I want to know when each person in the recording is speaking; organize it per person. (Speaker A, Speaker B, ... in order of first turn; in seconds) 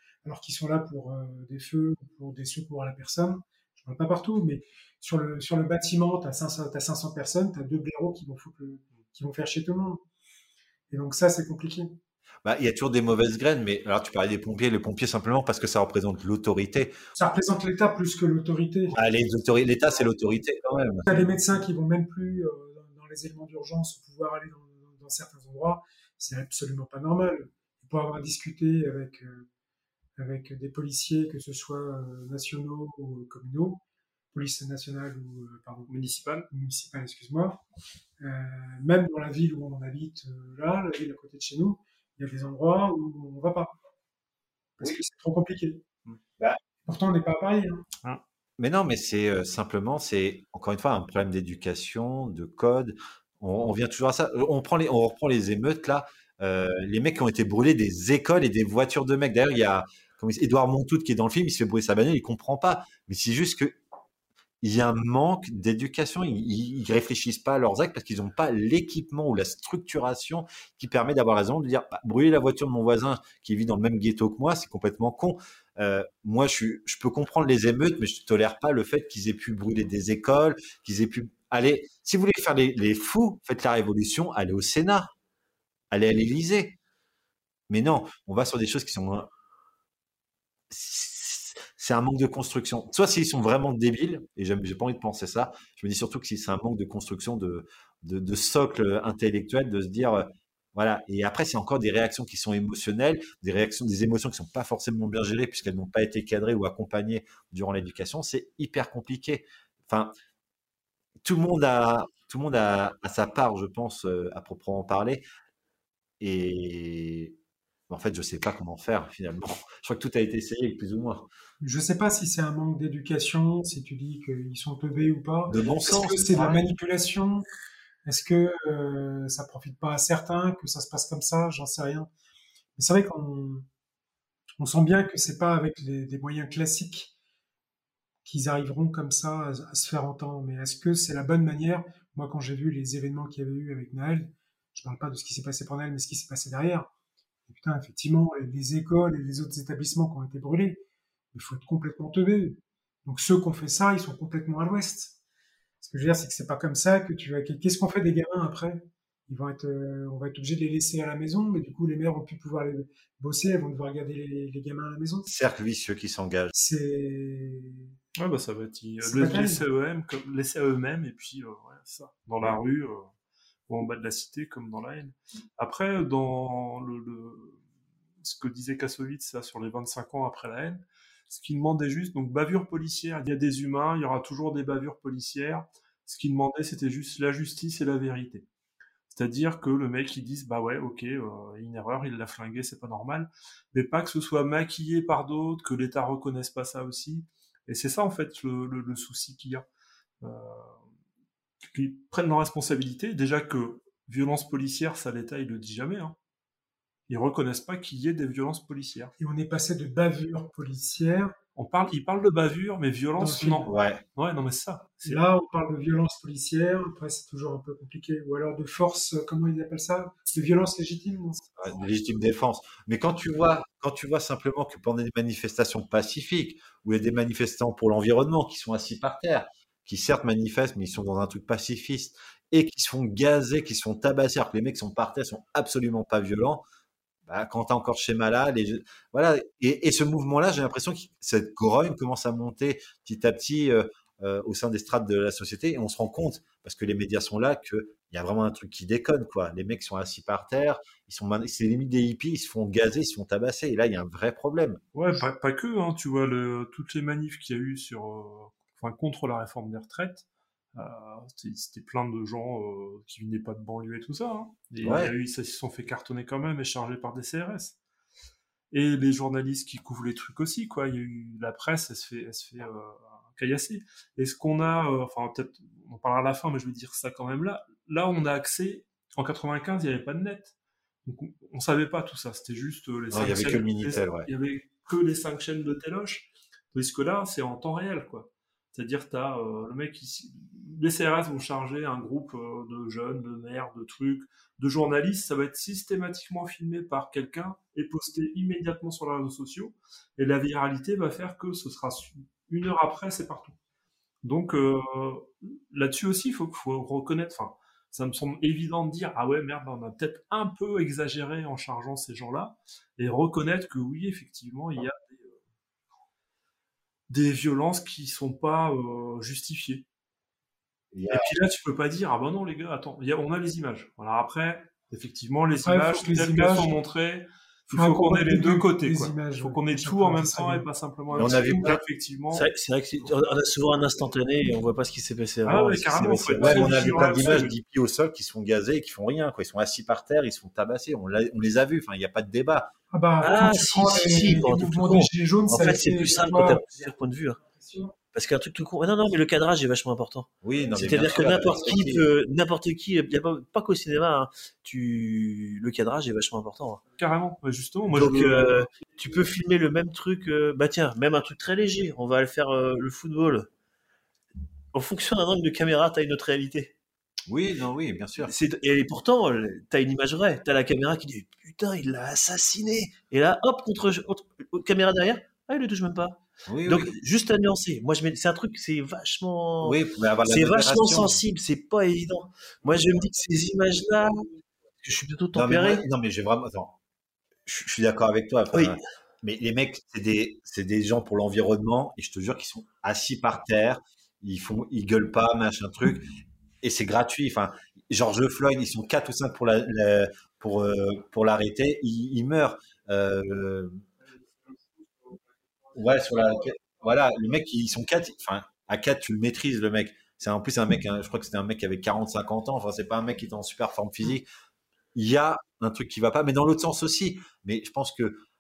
Speaker A: 0.2-10.0, 10.9-11.9, 17.2-19.0, 21.1-29.5, 30.2-33.8, 34.3-35.9, 36.5-37.6, 38.2-43.7, 44.8-45.8, 46.9-47.9, 121.6-127.5, 128.1-132.1, 132.8-133.7, 134.6-137.1, 138.2-146.9, 147.5-150.8, 151.3-155.2, 155.8-165.3, 166.5-167.9, 169.0-169.6, 209.2-211.3, 213.2-213.7, 215.0-221.8, 325.6-326.8, 327.7-330.7, 342.9-347.9
Speaker B: 12.4-17.0, 18.9-21.2, 48.6-63.8, 64.6-85.1, 85.9-86.8, 87.7-89.3, 90.7-110.1, 111.2-115.2, 116.2-117.3, 117.9-121.3, 125.5-126.6, 165.3-166.5, 213.7-214.0, 221.6-236.6, 237.3-254.8, 264.8-265.1, 283.1-284.3, 320.9-321.3, 331.1-331.8, 336.4-342.7, 350.4-352.1, 367.3-368.3, 376.5-376.9, 379.6-381.2, 385.3-386.8, 387.5-396.1, 396.6-403.8, 405.7-414.3, 414.9-418.2
Speaker C: 35.9-36.5, 168.2-173.0, 173.7-177.6, 178.2-188.5, 189.1-199.7, 200.2-200.7, 201.7-206.1, 207.1-209.1, 211.6-215.2, 254.9-260.2, 260.8-267.8, 268.7-280.5, 281.1-303.5, 304.2-315.3, 317.1-319.8, 321.1-332.4, 335.5-337.5, 357.0-358.7
Speaker D: 332.3-337.3, 343.2-347.4, 348.1-356.8, 357.9-363.5, 364.7-366.7, 368.2-384.1, 384.8-385.8, 388.5-388.8